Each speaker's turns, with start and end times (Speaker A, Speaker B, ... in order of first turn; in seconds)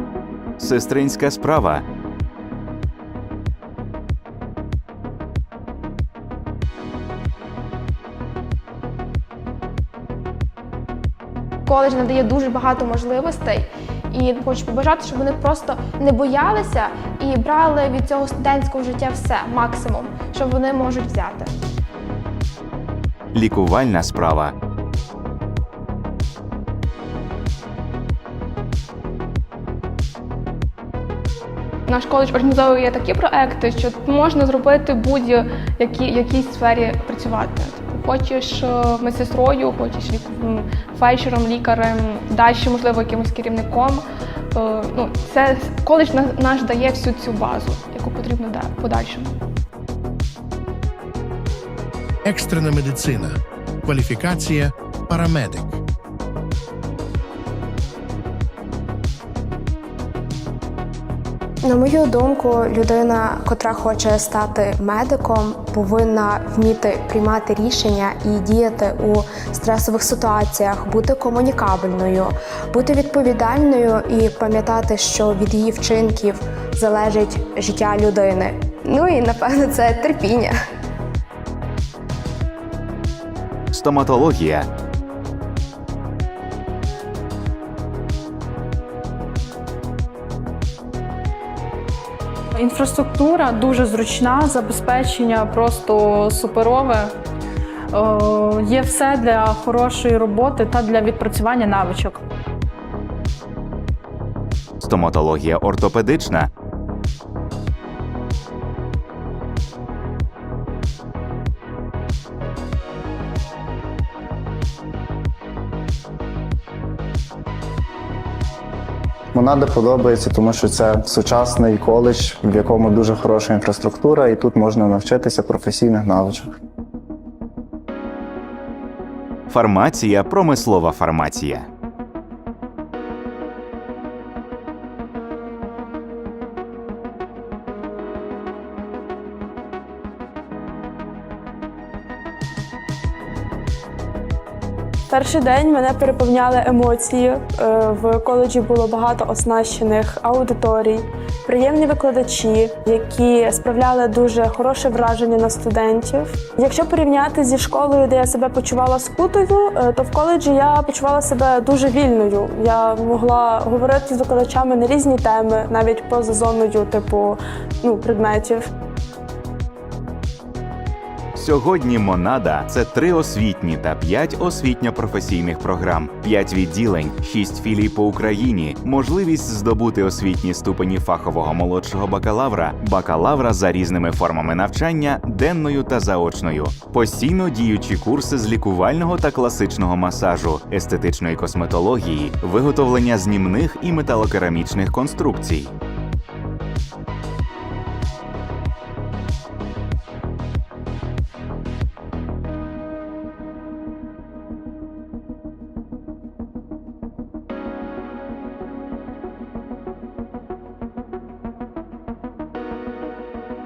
Speaker A: 0.6-1.9, 23.3-24.5, 83.7-84.7, 104.8-106.5, 129.5-131.7, 171.3-195.7
Speaker B: 11.7-21.5
Speaker C: 31.9-49.3
Speaker D: 52.2-55.8
Speaker E: 61.6-80.5
Speaker F: 92.6-97.2, 97.9-102.2
Speaker G: 119.3-126.5
Speaker H: 145.1-168.7